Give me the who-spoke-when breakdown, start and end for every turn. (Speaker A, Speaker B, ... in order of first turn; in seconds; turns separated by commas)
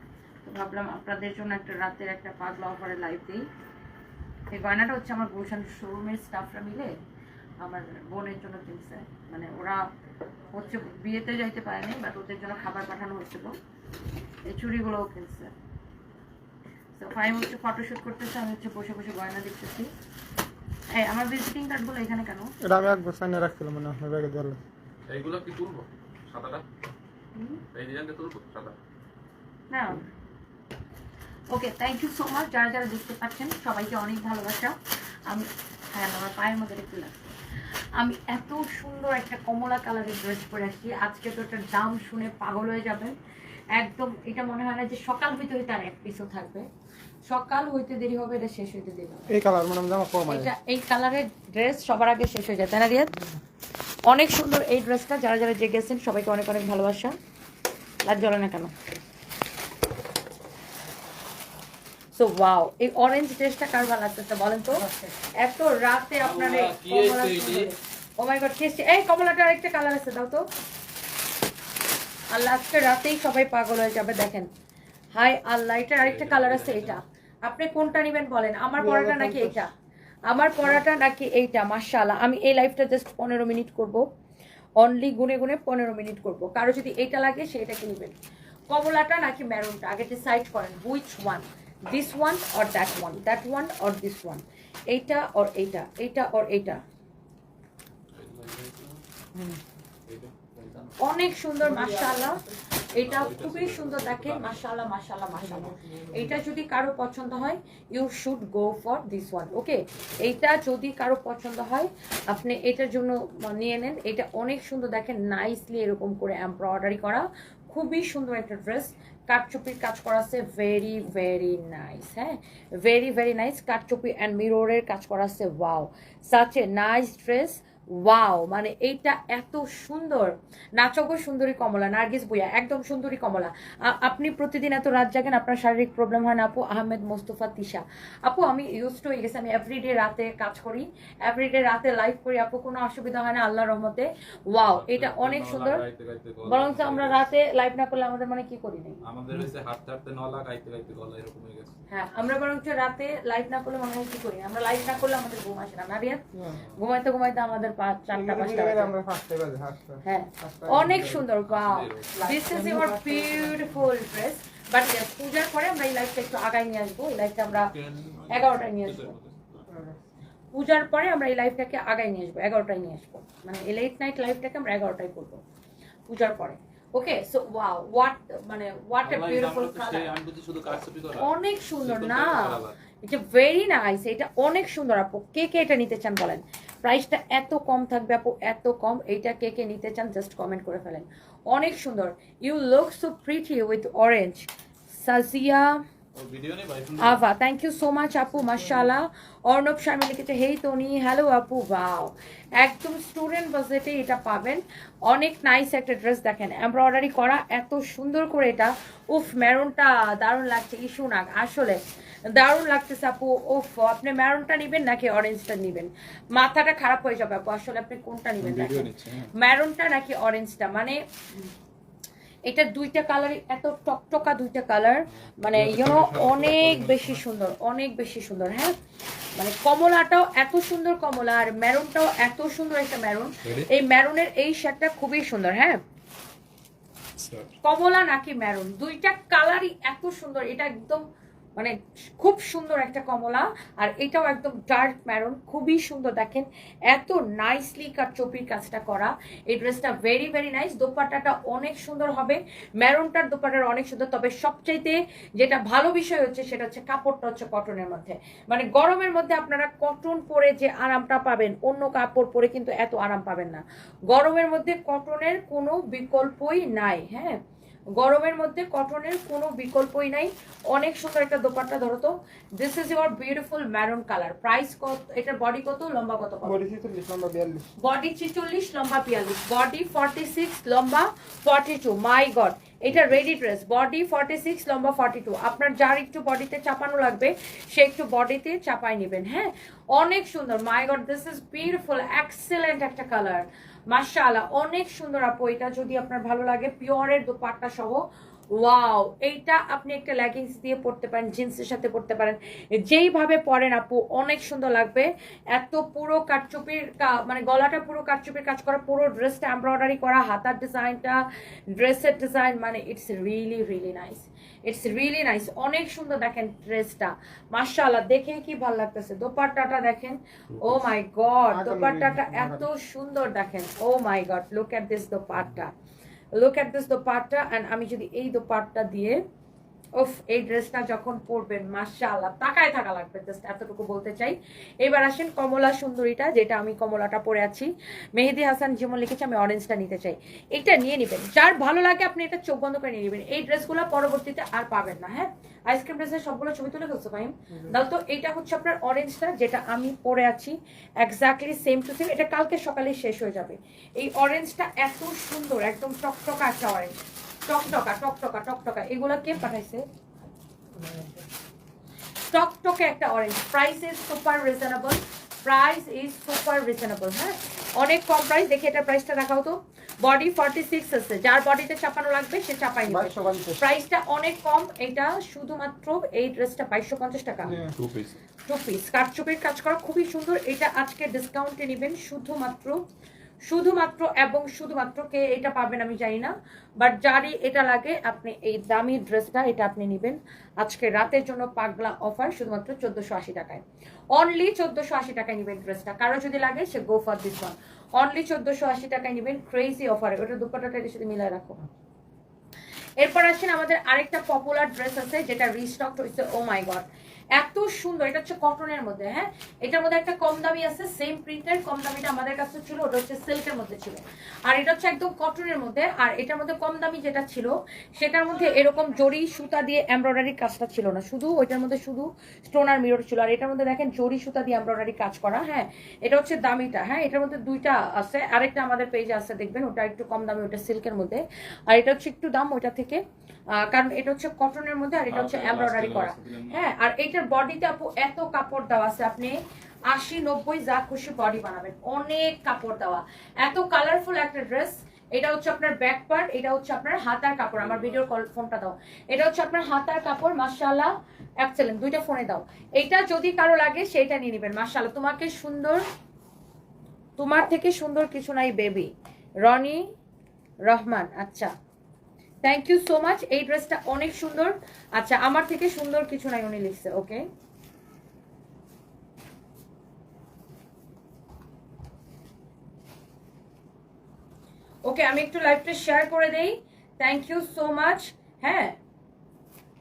Speaker A: 0.4-3.5, Speaker A: 4.5-6.9, Speaker A: 7.6-9.8, Speaker A: 10.5-13.6, Speaker A: 14.4-15.5, Speaker A: 17.0-19.9, Speaker A: 20.9-22.5, Speaker B: 22.6-24.6, Speaker C: 25.1-26.6, Speaker A: 27.3-27.6, Speaker C: 27.7-28.8, Speaker A: 29.7-30.0, Speaker A: 31.5-37.4, Speaker A: 37.9-43.1, Speaker A: 43.7-46.7, Speaker A: 47.2-49.3, Speaker B: 49.3-50.5, Speaker A: 50.3-53.2, Speaker A: 54.0-57.2, Speaker A: 58.0-58.9, Speaker A: 62.1-70.5, Speaker B: 64.8-65.1, Speaker C: 66.2-67.7, Speaker A: 72.3-74.5, Speaker A: 75.1-79.7, Speaker C: 76.0-77.0, Speaker B: 78.8-79.6, Speaker A: 80.3-84.0, Speaker A: 84.8-88.2, Speaker A: 88.7-96.8, Speaker C: 98.1-99.0, Speaker B: 99.3-99.6, Speaker C: 100.0-101.0, Speaker A: 101.0-145.8, Speaker B: 101.6-102.4, Speaker C: 102.9-104.7, Speaker B: 105.4-106.4, Speaker C: 109.9-110.5, Speaker C: 144.7-147.2, Speaker A: 146.4-149.0, Speaker C: 149.0-151.7, Speaker A: 151.9-158.9, Speaker B: 156.3-156.6, Speaker C: 156.6-156.8, Speaker B: 158.1-161.3, Speaker A: 160.0-167.7, Speaker C: 161.5-162.1, Speaker B: 162.1-164.0, Speaker C: 167.5-169.6, Speaker A: 168.3-169.1, Speaker B: 169.7-170.0, Speaker A: 170.5-175.4, Speaker A: 176.1-180.2, Speaker C: 179.0-182.8, Speaker A: 181.1-195.8, Speaker C: 196.1-197.2, Speaker A: 197.0-221.5, Speaker B: 198.3-198.9, Speaker C: 218.4-219.3, Speaker A: 222.4-228.8, Speaker C: 225.2-227.2, Speaker A: 229.3-235.8, Speaker C: 233.4-233.7, Speaker C: 237.2-237.5, Speaker A: 237.6-241.0, Speaker A: 241.6-267.4, Speaker A: 267.9-276.6, Speaker B: 276.4-277.7, Speaker A: 277.8-325.7, Speaker C: 320.5-320.9, Speaker B: 321.5-322.7, Speaker A: 326.4-329.2, Speaker A: 329.9-359.8, Speaker B: 347.5-347.8, Speaker B: 360.7-361.2, Speaker A: 362.3-377.6, Speaker B: 372.9-373.6, Speaker C: 377.4-378.2, Speaker B: 377.4-377.8, Speaker A: 378.4-382.8, Speaker A: 383.4-401.6, Speaker A: 403.0-455.8, Speaker C: 435.1-436.6, Speaker C: 447.5-448.0, Speaker A: 457.2-458.9, Speaker A: 459.4-459.9, Speaker A: 460.6-461.5, Speaker A: 462.4-467.3, Speaker A: 474.8-478.8